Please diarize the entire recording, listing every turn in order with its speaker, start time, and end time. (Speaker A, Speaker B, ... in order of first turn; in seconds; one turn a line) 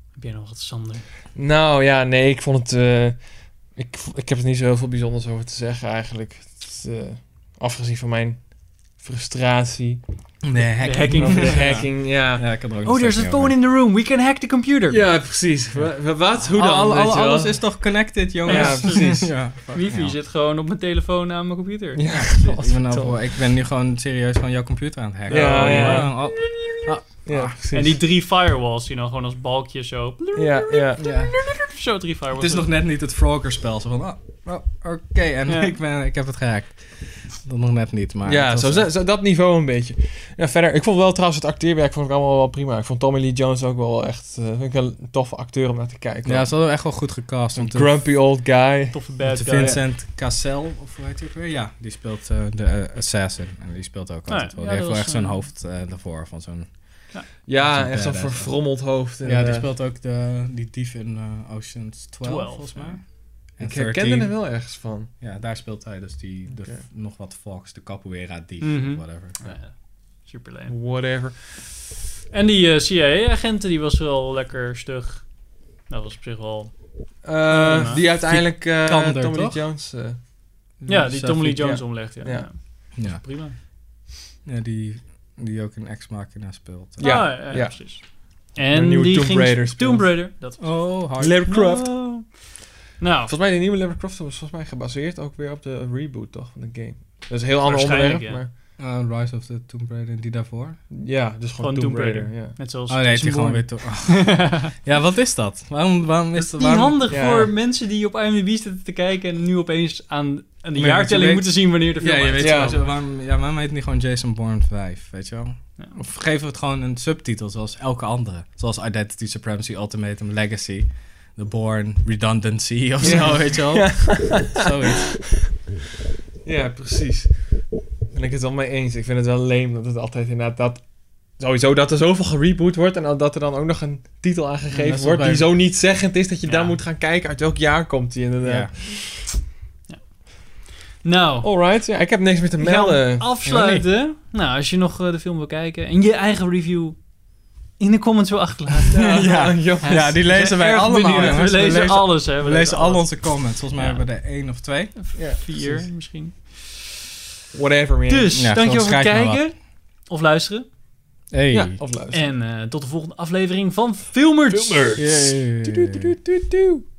Speaker A: 0.1-1.1
Speaker B: 1.3-10.0
Speaker C: 10.4-13.5
Speaker A: 10.8-11.9
Speaker B: 11.2-12.4
Speaker A: 12.8-15.0
Speaker B: 14.9-17.8
Speaker C: 15.8-20.1
Speaker B: 18.4-19.3
Speaker A: 18.4-22.0
Speaker B: 21.9-23.2
Speaker C: 22.1-27.5
Speaker A: 25.3-26.1
Speaker B: 25.3-26.3
Speaker B: 27.2-28.0
Speaker A: 27.7-32.7
Speaker B: 30.4-31.0
Speaker C: 31.0-31.3
Speaker C: 32.3-38.9
Speaker A: 35.5-35.7
Speaker B: 38.2-46.7
Speaker C: 46.2-48.0
Speaker B: 47.5-49.0
Speaker A: 48.9-49.8
Speaker C: 49.2-58.6
Speaker A: 54.3-55.4
Speaker B: 57.4-59.7
Speaker C: 59.2-64.4
Speaker A: 62.2-63.0
Speaker B: 63.6-65.1
Speaker C: 65.2-69.4
Speaker B: 66.5-66.8
Speaker A: 68.6-70.7
Speaker B: 70.7-71.4
Speaker A: 72.3-75.3
Speaker A: 75.9-76.7
Speaker B: 77.2-80.2
Speaker A: 77.5-78.0
Speaker C: 77.8-79.6
Speaker C: 80.8-81.6
Speaker A: 80.9-83.5
Speaker B: 81.4-82.6
Speaker C: 82.9-83.2
Speaker C: 84.4-87.4
Speaker A: 87.0-93.3
Speaker B: 87.0-90.2
Speaker C: 90.6-91.4
Speaker B: 91.2-92.0
Speaker B: 93.3-98.5
Speaker A: 97.6-98.4
Speaker C: 98.8-100.8
Speaker B: 100.9-102.6
Speaker A: 101.6-104.7
Speaker C: 102.9-107.0
Speaker A: 106.3-112.8
Speaker B: 107.1-107.5
Speaker C: 110.8-125.2
Speaker B: 112.4-112.8
Speaker B: 123.0-125.0
Speaker B: 126.4-139.2
Speaker C: 134.7-135.5
Speaker A: 136.4-136.8
Speaker C: 138.4-138.7
Speaker A: 141.0-141.5
Speaker B: 141.4-143.3
Speaker A: 142.6-147.0
Speaker C: 143.4-143.8
Speaker A: 147.8-149.1
Speaker B: 148.9-150.3
Speaker C: 148.9-155.0
Speaker A: 149.8-154.0
Speaker A: 154.9-156.9
Speaker B: 155.1-155.9
Speaker B: 157.5-158.3
Speaker A: 158.1-160.7
Speaker C: 158.3-159.5
Speaker C: 161.3-161.8
Speaker B: 161.5-162.2
Speaker A: 162.1-165.0
Speaker B: 164.5-166.8
Speaker C: 164.9-166.2